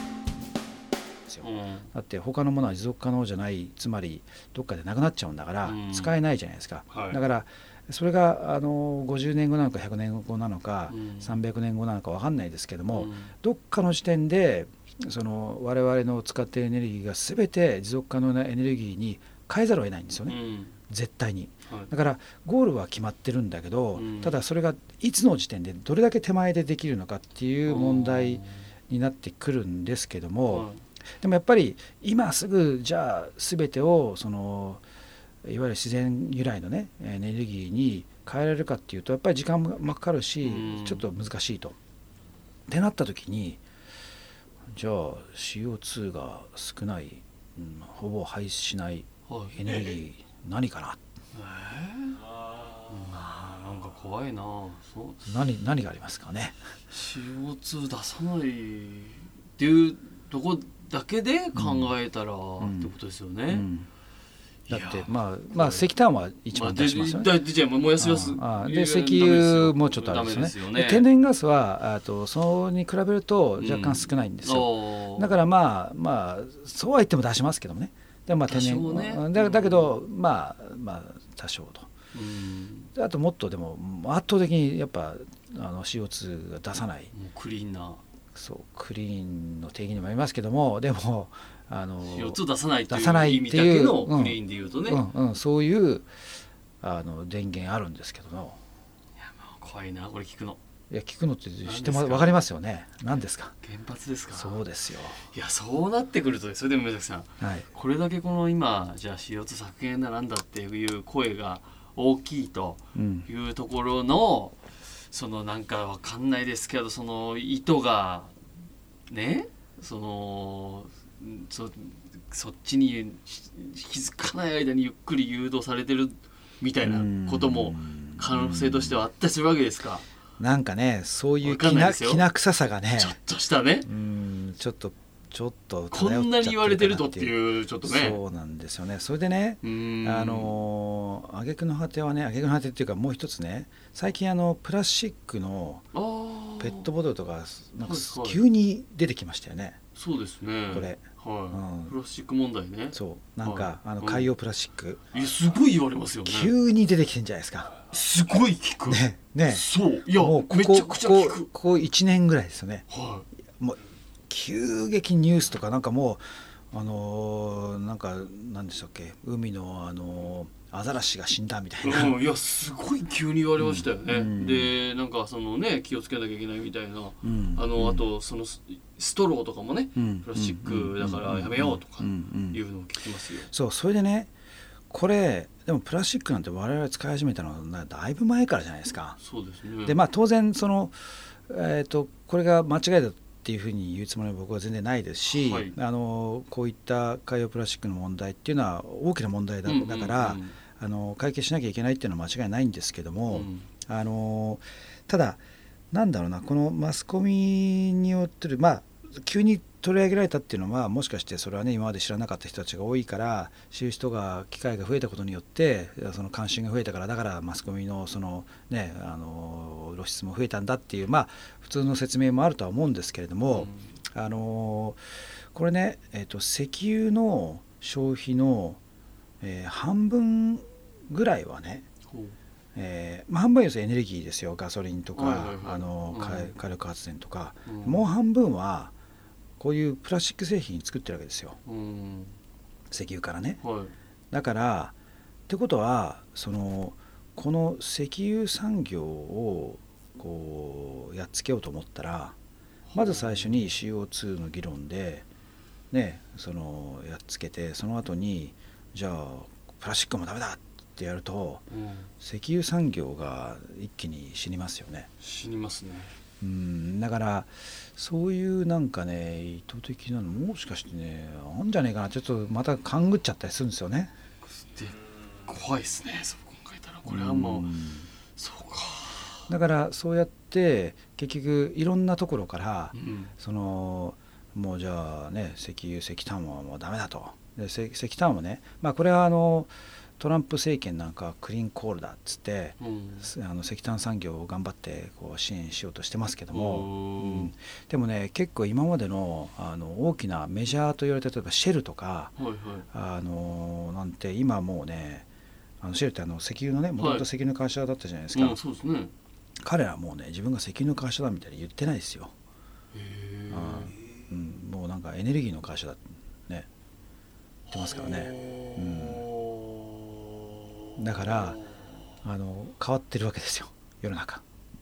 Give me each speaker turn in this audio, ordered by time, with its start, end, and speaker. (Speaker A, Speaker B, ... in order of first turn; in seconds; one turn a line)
Speaker A: 1.3-20.4
Speaker B: 1.4-1.9
Speaker B: 5.6-6.1
Speaker B: 6.9-7.2
Speaker B: 10.9-11.4
Speaker B: 12.9-13.3
Speaker B: 20.3-20.8
Speaker A: 20.9-30.7
Speaker B: 23.9-24.4
Speaker B: 27.7-28.7
Speaker B: 30.5-30.8
Speaker A: 31.2-34.8
Speaker A: 35.4-41.8
Speaker B: 40.4-41.1
Speaker A: 42.7-43.6
Speaker A: 44.7-51.0
Speaker B: 49.3-50.0
Speaker B: 51.3-52.2
Speaker B: 52.9-55.3
Speaker A: 55.3-56.6
Speaker B: 56.9-63.7
Speaker A: 61.5-61.9
Speaker A: 62.6-62.9
Speaker A: 63.5-63.9
Speaker B: 64.7-65.9
Speaker A: 64.7-67.4
Speaker B: 66.5-71.1
Speaker A: 68.0-81.9
Speaker B: 73.6-75.4
Speaker B: 78.5-80.0
Speaker B: 82.1-82.9
Speaker A: 83.0-87.1
Speaker B: 87.1-88.0
Speaker A: 88.3-96.1
Speaker B: 92.0-95.0
Speaker A: 96.8-98.6
Speaker B: 99.2-100.6
Speaker A: 100.9-103.5
Speaker B: 101.7-102.4
Speaker B: 103.6-104.6
Speaker A: 104.3-105.2
Speaker B: 105.3-114.6
Speaker A: 107.4-107.7
Speaker A: 113.0-113.3
Speaker B: 115.1-118.3
Speaker B: 119.1-130.1
Speaker A: 126.8-129.0
Speaker A: 130.4-133.2
Speaker B: 131.4-132.3
Speaker B: 133.0-133.9
Speaker A: 133.8-145.9
Speaker B: 135.9-138.2
Speaker B: 139.6-140.5
Speaker B: 145.9-146.9
Speaker A: 146.6-149.8
Speaker B: 147.8-148.4
Speaker B: 150.0-154.3
Speaker A: 150.7-151.9
Speaker A: 152.9-155.0
Speaker B: 155.1-156.5
Speaker A: 156.2-157.7
Speaker B: 157.9-161.5
Speaker A: 158.9-162.9
Speaker B: 162.9-163.3
Speaker A: 163.6-172.2
Speaker B: 171.8-183.5
Speaker A: 173.6-174.7
Speaker A: 177.2-178.1
Speaker A: 180.0-182.6
Speaker A: 183.5-184.3
Speaker A: 184.9-189.2
Speaker B: 189.2-190.0
Speaker A: 189.8-191.0
Speaker A: 191.5-205.4
Speaker B: 195.3-195.8
Speaker B: 199.7-200.6
Speaker B: 203.3-203.7
Speaker A: 205.9-225.0
Speaker B: 223.5-223.9
Speaker A: 225.5-228.8
Speaker A: 229.4-231.9
Speaker B: 232.1-232.4
Speaker A: 232.8-238.9
Speaker B: 235.2-236.5
Speaker B: 237.7-238.0
Speaker A: 239.6-241.6
Speaker B: 241.7-242.4
Speaker A: 242.9-243.6
Speaker B: 243.6-243.9
Speaker A: 244.3-244.9
Speaker A: 245.5-252.4
Speaker B: 252.9-253.7
Speaker A: 252.9-255.3
Speaker A: 255.9-261.7
Speaker B: 261.7-262.1
Speaker A: 262.2-265.1
Speaker B: 265.2-266.1
Speaker A: 266.4-274.1
Speaker B: 274.5-277.7
Speaker A: 277.1-278.1
Speaker B: 278.4-279.5
Speaker A: 279.5-302.3
Speaker B: 282.9-283.3
Speaker B: 292.8-293.3
Speaker B: 296.5-297.5
Speaker B: 302.4-302.9
Speaker A: 302.9-305.3
Speaker A: 305.8-308.6
Speaker B: 307.0-307.3
Speaker B: 308.3-309.1
Speaker A: 309.6-312.3
Speaker B: 312.9-314.0
Speaker A: 313.5-316.7
Speaker B: 317.7-321.8
Speaker A: 317.7-319.2
Speaker A: 321.0-321.6
Speaker A: 322.2-324.4